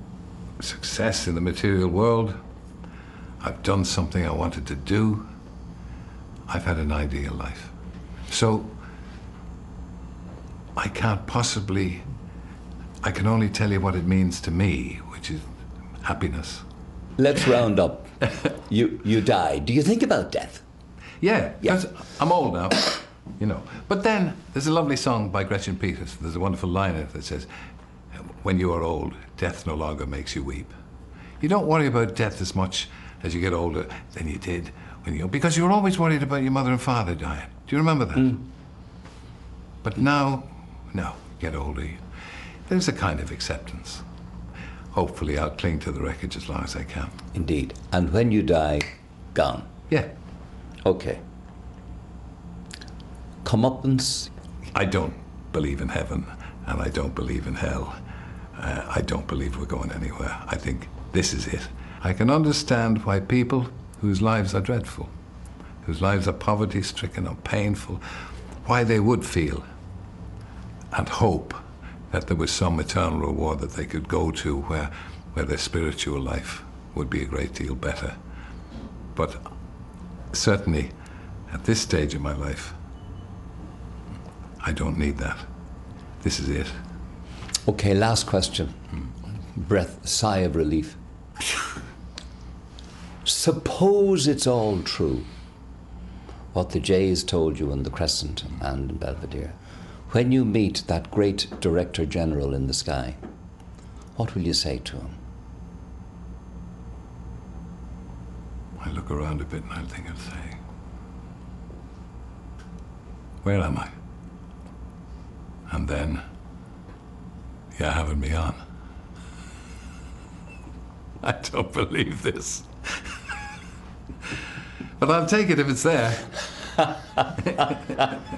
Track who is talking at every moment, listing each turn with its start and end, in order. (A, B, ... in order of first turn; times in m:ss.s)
0:00.6-0:02.4 A
0:03.4-0:05.3 A
0:06.5-0:07.7 A
0:08.3-0:08.8 A
0:10.8-0:12.0 A
0:13.0-0:15.4 A
0:16.0-0:16.6 A
0:17.2-0:20.6 B
0:21.2-0:27.5 A
0:28.1-0:30.8 A
0:31.4-0:38.4 A
0:39.8-0:42.0 A
0:42.7-0:44.0 A
0:44.9-0:47.2 A
0:47.3-0:49.7 B
0:50.8-0:51.2 B
0:53.4-0:54.3 B
0:54.7-0:58.0 A
0:58.6-1:05.1 A
1:05.8-1:08.0 A
1:08.6-1:09.6 A
1:10.9-1:18.2 A
1:19.1-1:19.4 A
1:20.3-1:20.9 A
1:21.5-1:22.8 A
1:24.6-1:25.4 A
1:26.2-1:26.8 A
1:27.7-1:28.8 B
1:29.5-1:31.0 B
1:33.2-1:35.3 B
1:36.5-1:39.6 B
1:40.1-1:43.2 B
1:44.2-1:45.2 B
1:48.8-1:50.6 A
1:53.4-1:53.9 A
1:55.7-1:56.2 A
1:57.8-1:58.6 A
2:01.2-2:02.7 A
2:05.0-2:06.4 A
2:07.6-2:08.0 B